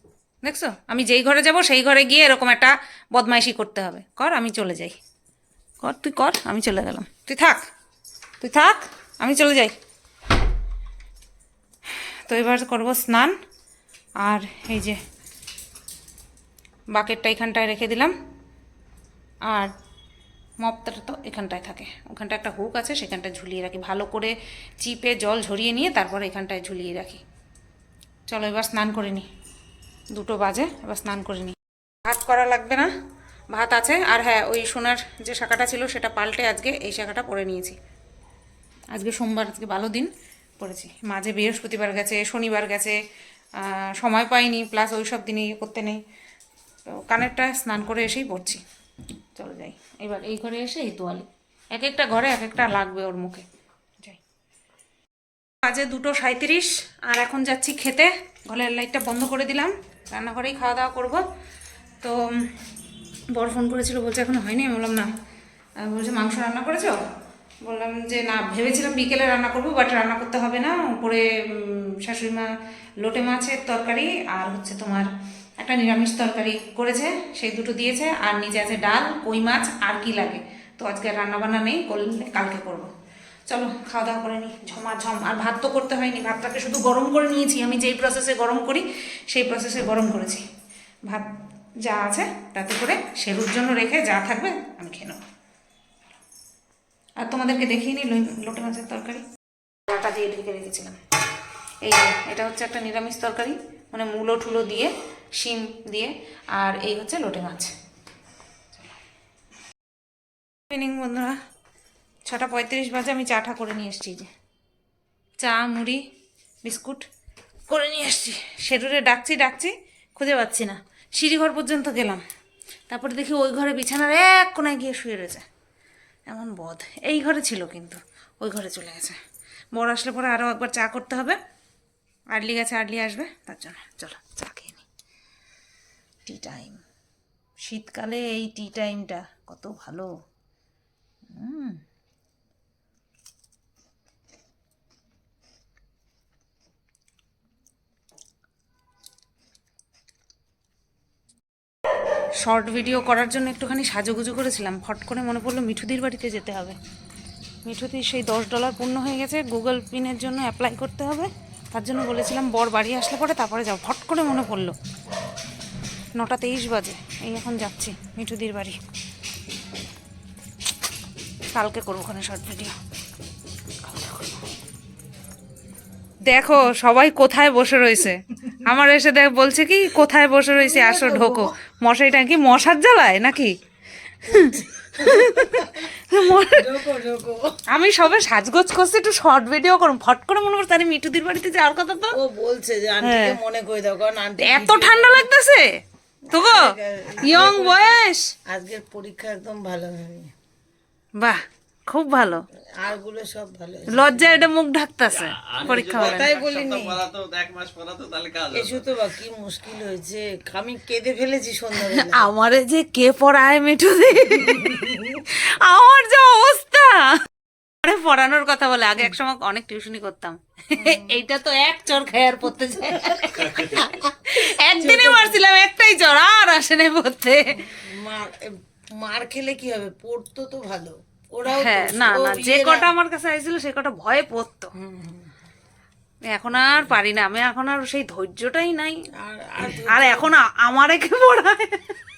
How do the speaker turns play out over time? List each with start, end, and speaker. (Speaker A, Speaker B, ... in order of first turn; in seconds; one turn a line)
Speaker A: 0.4-5.0
Speaker A: 5.8-7.6
Speaker A: 8.4-9.7
Speaker A: 12.2-13.3
Speaker A: 14.2-15.0
Speaker A: 16.9-18.1
Speaker A: 20.6-27.2
Speaker A: 28.3-29.2
Speaker A: 30.1-32.9
Speaker A: 33.5-37.8
Speaker A: 38.9-43.0
Speaker A: 43.6-46.0
Speaker A: 46.9-48.6
Speaker A: 49.3-53.5
Speaker A: 55.6-61.2
Speaker A: 62.0-62.5
Speaker A: 63.3-65.1
Speaker A: 65.8-67.0
Speaker A: 67.6-82.9
Speaker A: 83.5-90.4
Speaker A: 91.8-95.2
Speaker A: 97.2-99.2
Speaker A: 99.9-101.0
Speaker A: 101.8-107.7
Speaker A: 110.7-111.4
Speaker A: 112.3-114.3
Speaker A: 115.4-116.0
Speaker A: 116.6-117.0
Speaker A: 117.7-122.2
Speaker A: 122.9-125.4
Speaker A: 126.3-129.2
Speaker A: 129.7-131.4
Speaker A: 132.3-134.8
Speaker A: 136.2-136.8
Speaker A: 137.6-140.1
Speaker A: 141.3-141.8
Speaker A: 152.4-156.8
Speaker A: 157.6-164.8
Speaker A: 166.2-168.8
Speaker A: 171.5-172.8
Speaker A: 173.8-174.4
Speaker A: 176.3-183.5
Speaker B: 180.6-181.5
Speaker A: 184.2-186.8
Speaker B: 184.3-187.5
Speaker A: 187.7-192.2
Speaker B: 192.1-195.3
Speaker A: 193.0-193.4
Speaker A: 194.4-195.8
Speaker B: 196.3-200.3
Speaker A: 196.3-196.7
Speaker A: 197.2-198.3
Speaker A: 201.2-202.4
Speaker B: 202.8-204.4
Speaker A: 203.9-206.3
Speaker C: 205.2-208.8
Speaker B: 205.6-207.0
Speaker B: 208.5-212.3
Speaker A: 211.8-217.2
Speaker B: 214.7-215.0
Speaker A: 217.8-227.7
Speaker B: 220.8-221.2
Speaker B: 224.8-225.4
Speaker B: 227.6-232.9
Speaker A: 231.5-234.7
Speaker B: 234.8-235.3
Speaker A: 236.3-238.9
Speaker B: 239.2-240.3
Speaker A: 239.6-241.9